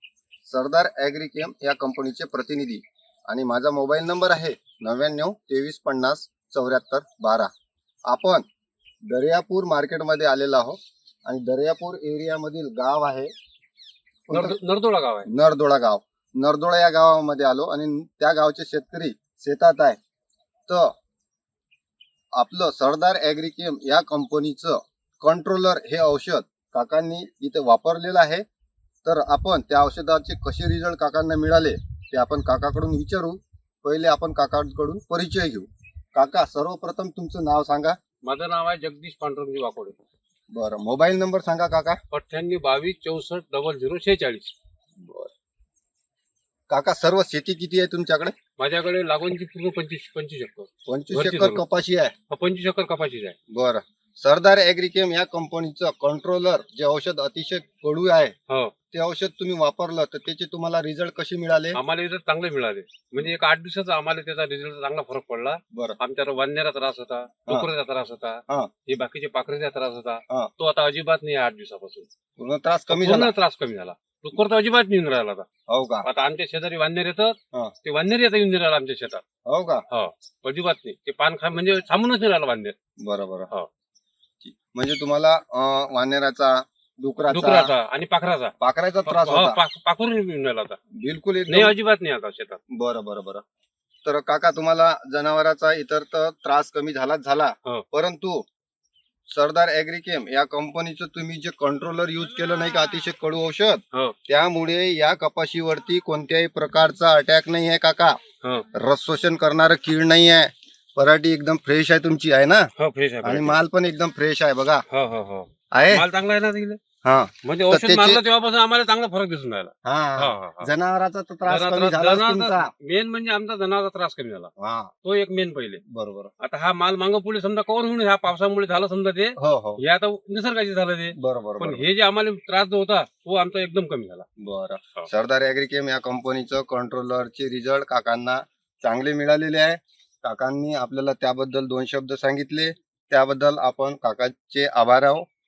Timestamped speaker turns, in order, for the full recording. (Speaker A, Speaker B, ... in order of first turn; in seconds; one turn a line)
Speaker A: 0.4-7.5
Speaker A: 8.1-8.4
Speaker A: 9.1-13.3
Speaker A: 14.3-14.6
Speaker B: 14.3-15.3
Speaker A: 15.3-20.0
Speaker A: 20.7-20.9
Speaker A: 22.4-28.4
Speaker A: 29.0-38.0
Speaker B: 38.2-40.0
Speaker A: 40.5-42.0
Speaker B: 42.1-44.5
Speaker A: 45.0-45.3
Speaker A: 46.7-48.3
Speaker B: 48.6-51.6
Speaker A: 50.9-52.1
Speaker B: 52.3-53.4
Speaker A: 53.5-58.3
Speaker A: 58.9-61.8
Speaker B: 61.7-72.1
Speaker A: 72.4-73.3
Speaker B: 72.9-75.5
Speaker A: 75.7-76.0
Speaker B: 76.0-79.2
Speaker A: 79.5-79.8
Speaker B: 79.9-82.7
Speaker A: 83.0-83.5
Speaker A: 84.4-87.7
Speaker B: 87.3-88.5
Speaker A: 88.6-89.6
Speaker B: 89.0-90.8
Speaker A: 91.0-91.7
Speaker B: 91.5-92.6
Speaker A: 92.7-93.4
Speaker A: 94.0-98.5
Speaker A: 99.3-108.2
Speaker A: 108.7-112.7
Speaker B: 112.8-113.6
Speaker A: 113.2-114.8
Speaker B: 114.9-116.8
Speaker A: 115.7-116.0
Speaker A: 117.0-118.2
Speaker B: 117.4-120.7
Speaker A: 119.8-122.7
Speaker B: 121.5-124.5
Speaker A: 124.6-124.9
Speaker B: 125.0-125.8
Speaker A: 125.9-126.3
Speaker B: 126.4-134.3
Speaker A: 129.4-129.8
Speaker A: 131.2-131.8
Speaker A: 134.4-145.2